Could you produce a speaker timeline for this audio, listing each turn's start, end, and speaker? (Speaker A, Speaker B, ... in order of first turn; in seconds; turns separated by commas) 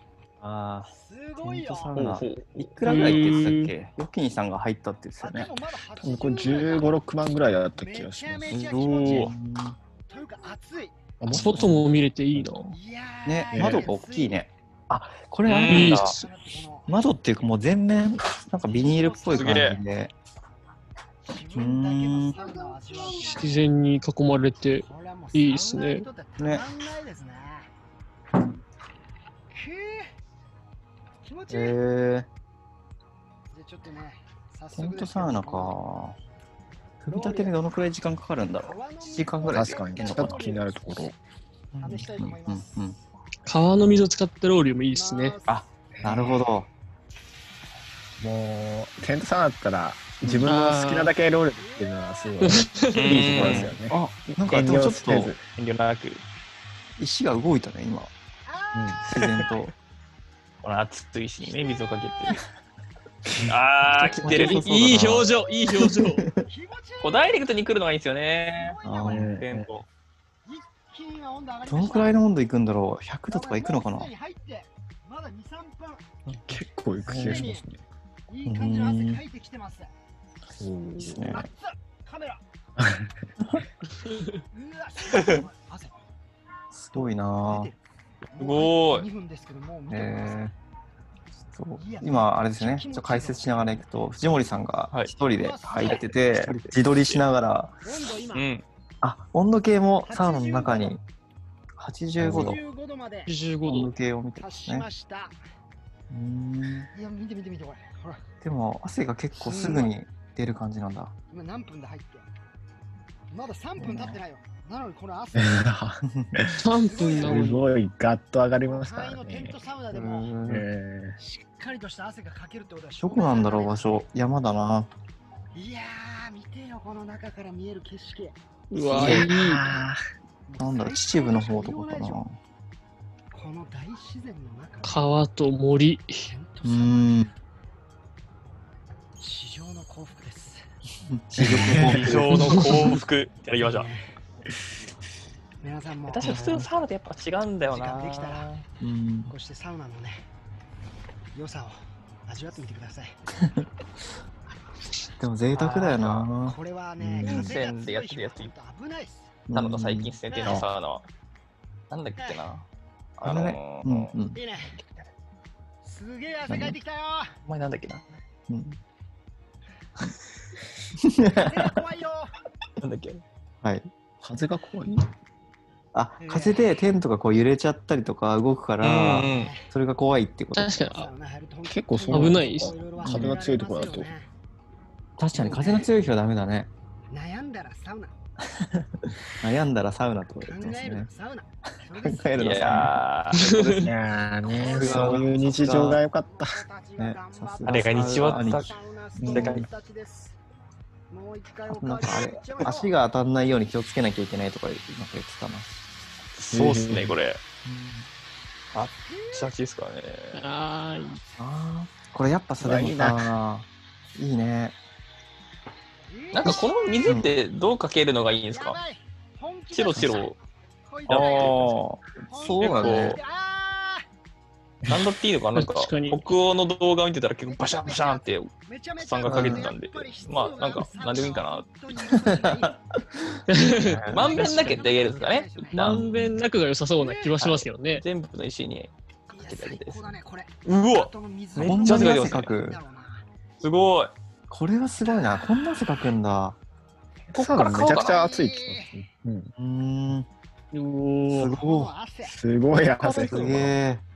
Speaker A: 0.4-5.5, Speaker B: 1.0-2.0, Speaker C: 1.9-3.3, Speaker D: 2.8-3.7, Speaker B: 5.2-7.0, Speaker E: 6.0-8.5, Speaker B: 7.7-9.3, Speaker C: 8.5-9.3, Speaker A: 9.0-9.8, Speaker B: 10.1-11.0, Speaker E: 11.2-12.5, Speaker A: 11.3-11.8, Speaker D: 11.3-12.8, Speaker B: 12.7-14.5, Speaker A: 13.2-16.2, Speaker E: 13.5-13.9, Speaker C: 15.4-16.1, Speaker D: 15.6-16.2, Speaker B: 15.7-16.9, Speaker A: 16.9-20.1, Speaker B: 18.6-19.7, Speaker C: 19.3-19.8, Speaker B: 21.2-23.6, Speaker A: 21.5-22.6, Speaker D: 23.4-26.1, Speaker B: 24.7-27.7, Speaker A: 26.4-26.7, Speaker B: 29.5-30.1, Speaker B: 31.2-31.8, Speaker A: 31.5-32.3, Speaker B: 33.5-35.8, Speaker A: 34.7-36.2, Speaker A: 37.0-40.5, Speaker B: 37.1-37.6, Speaker B: 38.6-41.0, Speaker E: 39.5-41.1, Speaker C: 41.7-42.0, Speaker B: 41.8-42.8, Speaker A: 41.9-43.0, Speaker D: 43.5-45.4, Speaker B: 44.9-45.6, Speaker A: 45.5-46.7, Speaker E: 46.0-46.4, Speaker E: 48.2-55.4, Speaker A: 50.2-50.5, Speaker D: 50.4-51.1, Speaker B: 51.5-52.6, Speaker D: 52.4-53.6, Speaker C: 52.9-53.7, Speaker A: 53.3-55.4, Speaker C: 55.5-56.2, Speaker A: 57.0-58.1, Speaker B: 58.5-58.9, Speaker E: 58.7-59.0, Speaker A: 59.0-59.7, Speaker C: 60.6-62.4, Speaker B: 61.4-62.4, Speaker C: 63.4-65.2, Speaker A: 64.0-66.5, Speaker D: 64.0-66.2, Speaker B: 66.5-67.4, Speaker C: 67.0-69.9, Speaker B: 68.6-69.3, Speaker A: 68.8-69.3, Speaker E: 69.1-69.7, Speaker B: 70.5-72.2, Speaker A: 71.7-74.1, Speaker B: 73.3-76.0, Speaker E: 76.5-77.8, Speaker B: 77.0-77.7, Speaker D: 77.1-77.4, Speaker B: 78.3-79.9, Speaker A: 78.5-79.2, Speaker E: 80.6-81.2, Speaker A: 81.0-81.5, Speaker B: 81.2-82.4, Speaker E: 82.8-83.1, Speaker B: 84.5-86.0, Speaker A: 86.7-87.7, Speaker B: 86.9-87.8, Speaker C: 88.3-89.1, Speaker B: 88.3-90.5, Speaker A: 89.9-90.5, Speaker A: 91.5-97.8, Speaker B: 91.8-93.8, Speaker B: 95.4-96.0, Speaker C: 95.7-97.2, Speaker B: 97.8-98.5, Speaker C: 98.3-98.6, Speaker A: 99.0-101.0, Speaker B: 100.0-101.0, Speaker A: 101.8-102.6, Speaker E: 102.2-102.5, Speaker B: 102.3-103.3, Speaker D: 103.3-103.9, Speaker A: 103.7-104.9, Speaker B: 104.4-105.4, Speaker A: 106.1-106.9, Speaker B: 106.9-108.2, Speaker A: 108.4-111.1, Speaker D: 109.4-109.8, Speaker B: 111.3-112.3, Speaker B: 113.3-115.7, Speaker A: 113.8-114.2, Speaker E: 115.3-116.6, Speaker A: 116.1-116.5, Speaker D: 116.6-117.6, Speaker B: 116.8-117.6, Speaker E: 117.2-119.6, Speaker B: 118.7-120.4, Speaker A: 119.9-120.7, Speaker E: 120.5-121.2, Speaker B: 121.2-124.0, Speaker A: 123.0-124.9, Speaker B: 125.5-128.3, Speaker D: 128.7-129.7, Speaker A: 128.9-129.3, Speaker B: 128.9-129.2, Speaker E: 128.9-130.0, Speaker B: 130.5-132.2, Speaker A: 130.6-132.4, Speaker B: 133.3-135.1, Speaker D: 134.8-136.3, Speaker B: 136.2-137.2, Speaker A: 136.6-137.3, Speaker B: 139.2-140.6, Speaker A: 141.1-142.7, Speaker E: 141.4-142.1, Speaker B: 141.5-141.9, Speaker C: 141.9-143.9, Speaker D: 142.3-142.9, Speaker B: 143.6-144.1, Speaker B: 145.6-146.4, Speaker C: 146.1-148.6, Speaker A: 146.2-146.7, Speaker B: 147.7-148.5, Speaker A: 148.8-149.3, Speaker B: 149.3-150.2, Speaker B: 151.3-153.1, Speaker A: 155.2-157.6, Speaker C: 155.5-156.3, Speaker B: 156.4-159.3, Speaker C: 157.2-158.5, Speaker A: 159.5-160.7, Speaker C: 159.5-161.1, Speaker B: 160.3-160.6, Speaker C: 161.9-162.7, Speaker B: 162.2-162.4, Speaker C: 163.2-164.1, Speaker A: 163.2-164.4, Speaker B: 164.3-164.8, Speaker B: 165.8-167.3, Speaker A: 166.5-166.8, Speaker C: 167.4-168.0, Speaker A: 168.5-168.8, Speaker A: 171.0-171.7, Speaker B: 171.4-172.3, Speaker C: 172.8-173.2, Speaker A: 173.6-173.9, Speaker E: 174.2-175.0, Speaker A: 175.9-180.8, Speaker B: 176.2-176.8, Speaker C: 178.8-179.5, Speaker B: 179.2-179.7, Speaker D: 180.6-181.1, Speaker B: 180.8-184.3, Speaker E: 181.6-184.1, Speaker D: 182.1-182.7, Speaker A: 183.0-183.4, Speaker A: 185.2-186.7, Speaker B: 185.3-185.9, Speaker B: 187.1-188.1, Speaker A: 188.6-191.1, Speaker B: 190.4-192.6, Speaker A: 192.0-193.0, Speaker C: 192.4-193.9, Speaker D: 193.3-193.9, Speaker E: 193.8-196.6, Speaker B: 194.5-200.4, Speaker A: 194.6-196.0, Speaker A: 197.0-199.7, Speaker C: 197.6-199.7, Speaker B: 201.1-202.9, Speaker A: 201.7-205.8, Speaker C: 206.3-207.4, Speaker E: 206.5-207.2, Speaker A: 207.6-208.1, Speaker C: 208.7-210.4, Speaker B: 209.1-209.5, Speaker D: 210.3-211.2, Speaker A: 211.4-214.8, Speaker E: 212.6-213.3, Speaker B: 216.1-217.2, Speaker C: 216.3-218.8, Speaker A: 216.4-217.3, Speaker B: 218.5-221.6, Speaker C: 219.7-220.3, Speaker C: 221.1-222.0, Speaker A: 221.1-223.2, Speaker B: 222.2-224.0, Speaker C: 222.6-223.2, Speaker C: 224.9-231.7, Speaker D: 225.5-226.2, Speaker B: 227.5-232.7, Speaker E: 229.3-229.6, Speaker A: 232.1-232.6, Speaker A: 233.2-234.6, Speaker D: 233.5-234.8, Speaker C: 234.1-235.9, Speaker B: 234.1-235.8, Speaker A: 235.7-236.4, Speaker D: 235.8-238.0, Speaker B: 237.0-237.3, Speaker C: 237.4-242.5, Speaker B: 239.3-243.2, Speaker A: 241.6-242.8, Speaker C: 243.6-244.1, Speaker A: 244.5-246.6, Speaker B: 245.0-246.1, Speaker E: 247.3-249.5, Speaker C: 247.3-248.2, Speaker B: 247.7-248.9, Speaker A: 249.5-250.3, Speaker D: 250.7-251.6, Speaker A: 251.3-251.9, Speaker B: 251.6-252.3, Speaker E: 252.2-253.4, Speaker C: 253.0-253.7, Speaker A: 253.2-254.0